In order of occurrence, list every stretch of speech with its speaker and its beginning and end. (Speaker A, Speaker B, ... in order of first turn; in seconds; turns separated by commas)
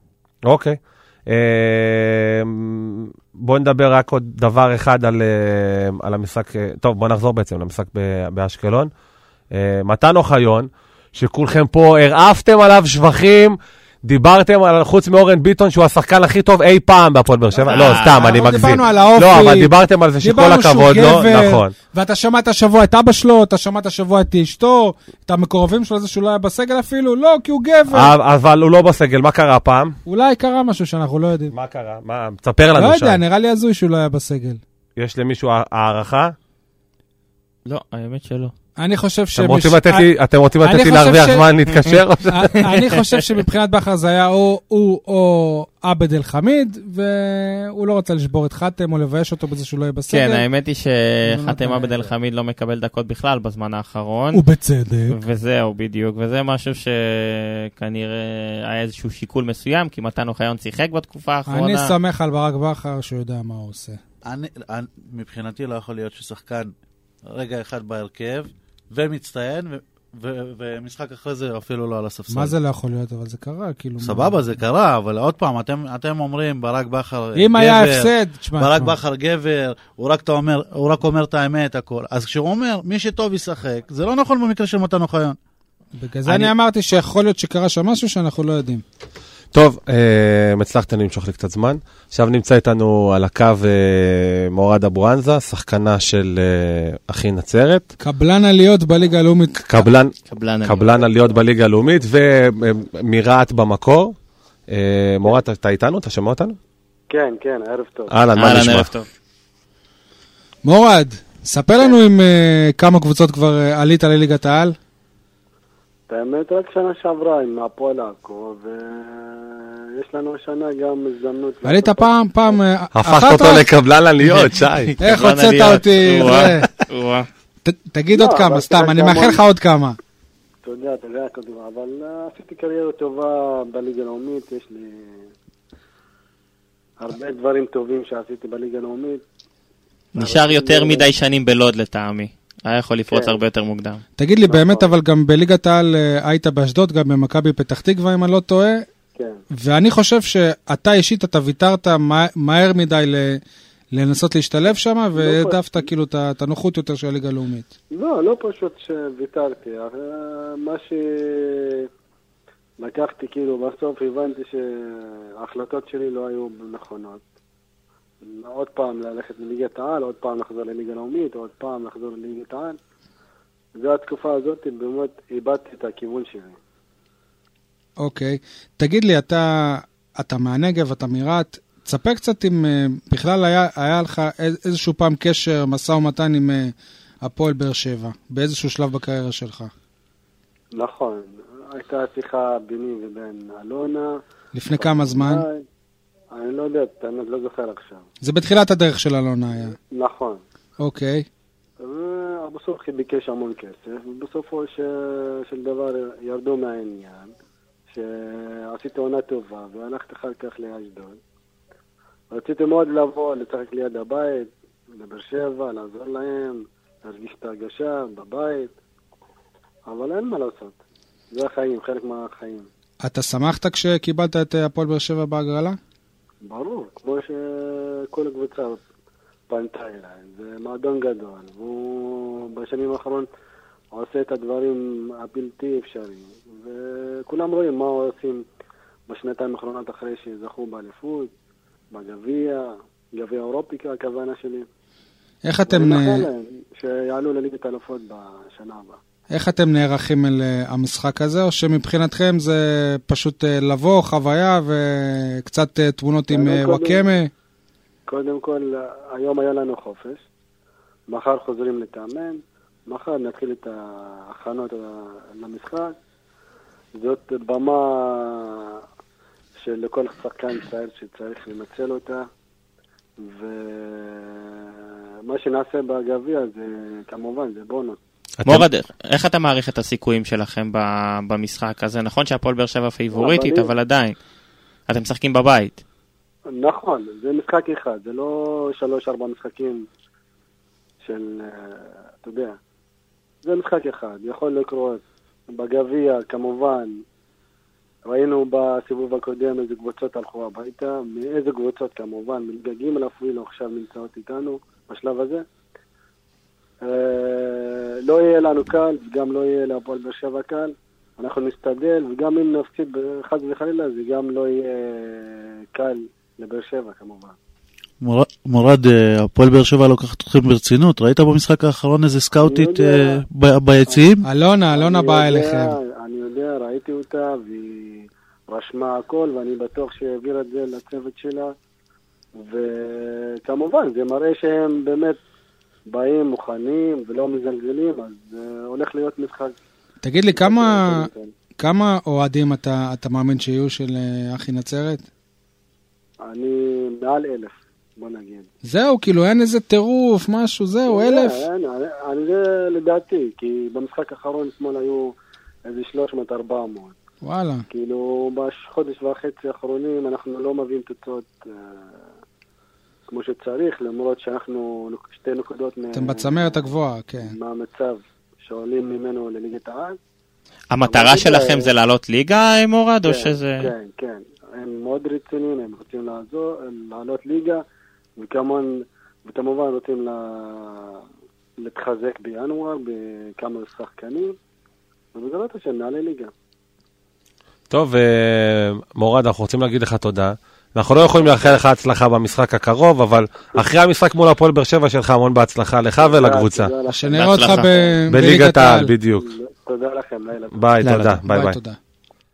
Speaker A: 0.5-8.9, Speaker A: 9.5-21.7, Speaker B: 17.6-28.1, Speaker C: 17.7-18.7, Speaker A: 27.9-30.0, Speaker B: 30.1-31.5, Speaker A: 31.5-33.2, Speaker B: 32.8-34.6, Speaker A: 35.0-36.4, Speaker C: 37.6-38.5, Speaker B: 38.8-40.1, Speaker A: 39.4-42.7, Speaker B: 40.6-41.5, Speaker B: 42.3-50.4, Speaker C: 42.7-43.2, Speaker C: 50.1-54.4, Speaker B: 51.2-52.1, Speaker B: 54.3-55.2, Speaker C: 55.1-61.9, Speaker B: 61.5-64.0, Speaker D: 64.2-66.7, Speaker D: 67.3-72.5, Speaker B: 72.3-74.4, Speaker D: 74.0-85.4, Speaker B: 77.3-79.0, Speaker B: 86.0-88.8, Speaker A: 89.5-97.9, Speaker B: 98.0-99.9, Speaker A: 99.7-100.1, Speaker C: 100.3-100.8, Speaker A: 100.6-104.2, Speaker A: 104.7-106.6, Speaker E: 107.1-108.2, Speaker A: 108.1-108.9, Speaker C: 108.3-109.1, Speaker B: 110.7-114.8, Speaker E: 116.1-122.6, Speaker B: 121.6-123.7, Speaker A: 123.0-125.0, Speaker C: 124.8-127.3, Speaker B: 125.0-126.7, Speaker B: 127.7-130.0, Speaker E: 128.1-129.4, Speaker E: 130.6-135.0, Speaker E: 137.0-139.2, Speaker E: 140.2-141.1, Speaker C: 140.2-144.0, Speaker E: 143.1-143.4, Speaker B: 144.2-148.9, Speaker E: 144.5-144.9, Speaker B: 149.6-153.4, Speaker B: 153.9-157.7, Speaker E: 155.2-155.9, Speaker E: 157.9-161.8, Speaker E: 162.8-167.2, Speaker E: 168.3-172.8, Speaker E: 173.8-176.6, Speaker B: 178.0-189.7, Speaker E: 190.8-194.2, Speaker B: 194.6-195.5, Speaker E: 194.7-195.7, Speaker E: 196.3-198.0, Speaker B: 198.2-199.8, Speaker E: 199.8-200.4, Speaker B: 200.8-201.3, Speaker E: 201.8-207.3, Speaker E: 207.9-211.2, Speaker E: 212.3-218.7, Speaker E: 219.9-220.8, Speaker E: 221.3-222.7, Speaker B: 223.0-225.8, Speaker E: 226.5-228.8, Speaker E: 229.5-233.3, Speaker E: 233.9-238.4, Speaker E: 239.1-241.3, Speaker E: 241.9-244.7, Speaker B: 245.5-246.3, Speaker E: 245.7-249.0, Speaker B: 249.3-257.3, Speaker E: 256.3-257.1, Speaker E: 258.1-260.2, Speaker E: 261.1-263.8, Speaker E: 264.3-265.9, Speaker E: 267.0-268.8, Speaker E: 269.6-272.2, Speaker E: 273.2-274.7, Speaker E: 275.3-278.0, Speaker A: 278.4-278.7, Speaker C: 278.4-284.1, Speaker E: 283.1-283.7, Speaker C: 284.9-285.8, Speaker E: 286.6-289.8, Speaker E: 291.0-292.6, Speaker E: 293.4-296.9, Speaker E: 298.1-305.4, Speaker E: 306.8-317.4, Speaker D: 318.0-324.2, Speaker E: 322.4-323.2, Speaker B: 324.2-325.8, Speaker E: 324.7-331.5, Speaker E: 332.4-335.2, Speaker E: 335.9-339.5, Speaker B: 340.0-345.1, Speaker E: 340.4-341.3, Speaker E: 346.3-348.5, Speaker B: 348.6-351.5, Speaker E: 350.9-355.1, Speaker E: 355.7-357.0, Speaker B: 357.2-357.6, Speaker E: 357.7-361.9, Speaker E: 363.1-370.0, Speaker B: 365.9-367.4, Speaker C: 370.7-373.7, Speaker E: 370.9-371.7, Speaker E: 373.0-377.6, Speaker E: 378.2-378.7, Speaker E: 379.2-381.0, Speaker E: 381.6-384.4, Speaker E: 385.1-386.3, Speaker A: 387.7-396.7, Speaker E: 396.0-398.0, Speaker B: 396.9-398.9, Speaker C: 397.1-397.8, Speaker A: 398.1-399.3, Speaker E: 399.2-400.9, Speaker A: 400.5-401.6, Speaker B: 400.9-401.8